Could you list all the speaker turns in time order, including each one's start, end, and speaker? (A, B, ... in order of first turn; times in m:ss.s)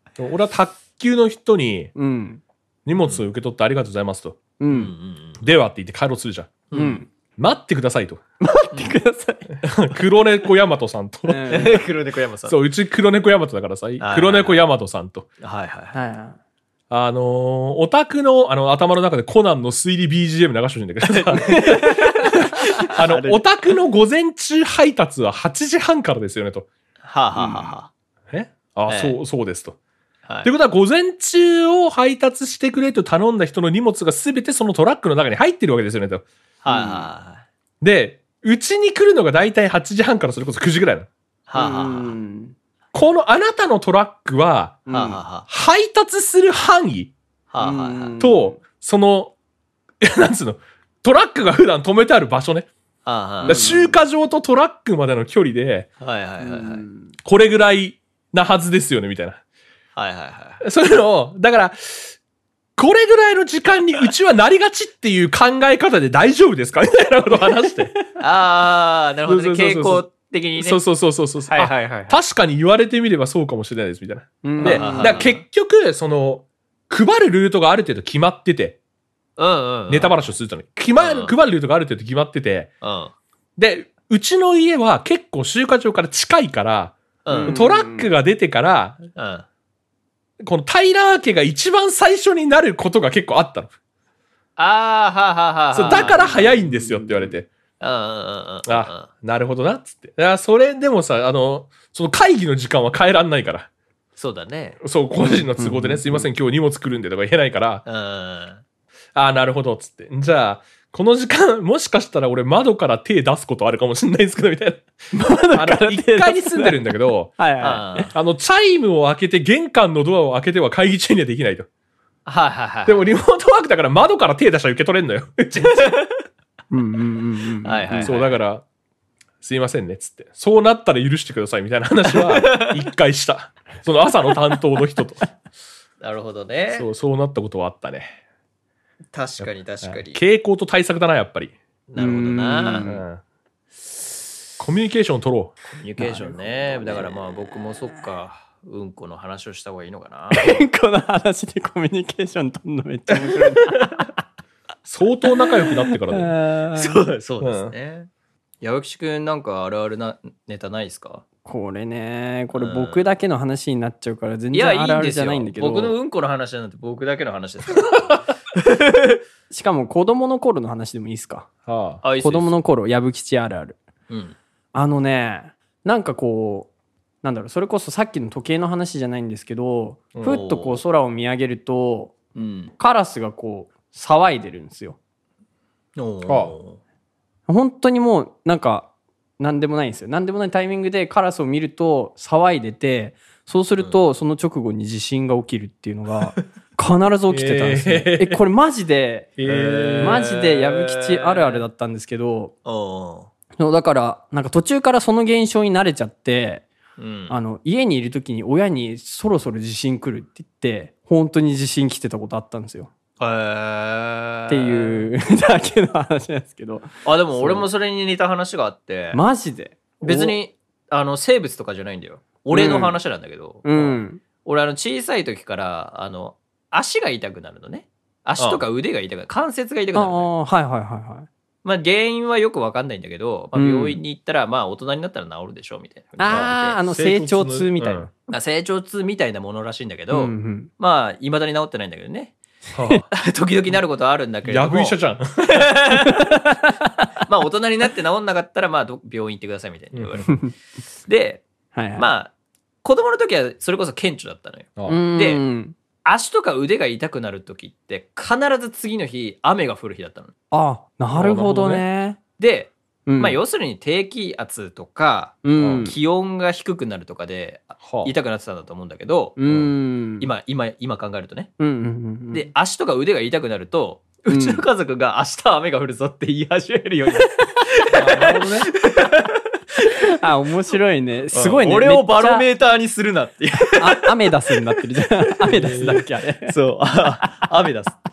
0:00.2-0:01.9 A
0:02.0-0:02.4 B
0:02.9-0:04.4 A
0:04.6-0:04.9 B
0:04.7-0:05.4 C
0:05.4-0:06.7 A
0:06.7-0:07.0 C
0:06.7-0:07.1 B
0:07.4-0:08.2 A
0:08.4-0:09.6 B
0:09.6-0:11.8 A
0:11.3-0:11.8 B
0:11.5-0:12.6 C
0:12.5-0:15.3 A
0:14.0-0:14.6 C
0:15.4-0:16.0 C
0:15.9-0:16.4 B
0:16.9-0:26.7 A
0:21.1-0:23.4 C
0:21.4-0:22.3 B
0:27.0-0:27.9 C
0:27.4-0:27.8 B
0:28.3-0:29.8 A
0:28.9-0:29.2 C
0:30.4-0:36.3 A
0:36.6-0:37.4 C
0:36.7-0:37.1 B
0:37.8-0:41.1 A
0:41.5-0:42.2 C
0:41.6-0:42.6 B
0:42.9-0:44.9 A
0:44.9-0:45.2 B
0:44.9-0:45.5 C
0:45.5-0:47.2 A
0:47.5-0:48.2 C
0:47.6-0:48.6 B
0:48.2-0:49.4 A
0:50.0-0:52.7 A
0:53.0-0:53.7 C
0:53.4-0:54.0 B
0:53.4-0:55.9 A
0:56.0-0:56.9 C
0:56.4-0:57.1 B
0:57.2-0:59.4 A
1:00.0-1:00.6 C
1:00.6-1:02.2 A
1:02.8-1:08.1 A
1:08.2-1:10.8 C
1:09.3-1:18.8 A
1:11.5-1:12.2 C
1:14.4-1:15.2 B
1:14.6-1:15.4 C
1:19.4-1:20.2 C
1:19.9-1:22.7 A
1:21.0-1:21.4 C
1:22.8-1:23.1 C
1:23.6-1:29.0 A
1:27.2-1:27.6 C
1:27.3-1:28.1 B
1:29.2-1:29.5 C
1:30.4-1:33.7 A
1:34.6-1:36.4 C
1:35.7-1:37.5 A
1:35.9-1:37.3 B
1:37.8-1:39.1 C
1:38.7-1:43.7 A
1:44.2-1:44.8 C
1:44.8-1:47.8 A
1:45.2-1:46.3 B
1:47.9-1:48.6 C
1:49.2-1:54.9 A
1:55.1-1:56.8 B
1:55.5-1:57.4 A
1:57.4-1:58.0 B
1:57.6-1:58.1 C
1:58.1-2:01.7 A
2:02.3-2:03.2 C
2:02.9-2:05.9 A
2:05.6-2:06.2 C
2:06.7-2:08.1 B
2:07.6-2:08.4 C
2:08.0-2:08.6 A
2:09.4-2:15.2 A
2:12.2-2:12.8 C
2:16.0-2:16.9 C
2:16.7-2:18.2 A
2:19.1-2:20.2 C
2:19.4-2:21.5 A
2:21.9-2:22.9 C
2:22.0-2:23.1 B
2:22.8-2:23.2 A
2:24.6-2:25.6 A
2:25.7-2:30.6 C
2:26.0-2:27.0 B
2:30.3-2:33.9 B
2:34.8-2:36.4 A
2:35.6-2:37.0 B
2:36.7-2:38.1 C
2:37.4-2:37.7 A
2:38.6-2:41.2 C
2:41.5-2:46.0 B
2:42.5-2:43.1 C
2:44.5-2:49.2 C
2:49.5-2:51.5 B
2:51.7-2:52.0 A
2:52.0-2:52.5 C
2:52.2-2:53.8 B
2:54.1-2:54.4 C
2:54.8-2:56.7 B
2:57.2-3:02.2 B
3:00.2-3:00.8 C
3:02.4-3:02.7 C
3:02.8-3:05.0 B
3:06.0-3:06.8 C
3:06.3-3:06.5 A
3:07.5-3:19.4 B
3:17.3-3:18.4 A
3:19.4-3:20.3 A
3:19.4-3:21.6 C
3:20.0-3:22.5 B
3:22.6-3:23.3 C
3:23.6-3:26.7 B
3:27.0-3:27.4 C
3:27.3-3:32.9 B
3:33.2-3:35.1 C
3:34.5-3:37.7 B
3:37.0-3:39.2 C
3:39.1-3:40.4 B
3:40.0-3:50.3 C
3:42.5-3:43.0 B
3:43.6-3:44.2 B
3:48.4-3:48.6 A
3:49.9-3:51.3 B
3:51.6-3:56.8 C
3:53.5-3:54.0 B
3:56.2-3:58.1 B
3:56.3-3:58.1 A
3:58.3-4:02.4 C
4:00.1-4:00.7 B
4:02.8-4:03.1 A
4:03.1-4:05.0 C
4:04.4-4:05.7 A
4:05.5-4:06.4 C
4:06.2-4:06.8 B
4:07.3-4:10.5 C
4:11.0-4:12.3 C
4:11.8-4:12.1 B
4:12.8-4:15.4 C
4:14.9-4:15.8 B
4:16.0-4:20.3 C
4:20.5-4:22.2 B
4:21.1-4:21.8 A
4:22.4-4:29.5 C
4:23.1-4:23.4 B
4:25.4-4:26.0 B
4:25.6-4:25.9 A
4:27.8-4:28.1 A
4:29.4-4:30.3 B
4:30.2-4:31.5 C
4:31.6-4:32.5 B
4:32.3-4:40.0 C
4:34.3-4:34.7 B
4:38.0-4:38.7 A
4:40.1-4:42.5 B
4:41.3-4:44.3 C
4:43.7-4:46.6 B
4:45.4-4:46.0 A
4:46.4-4:48.0 C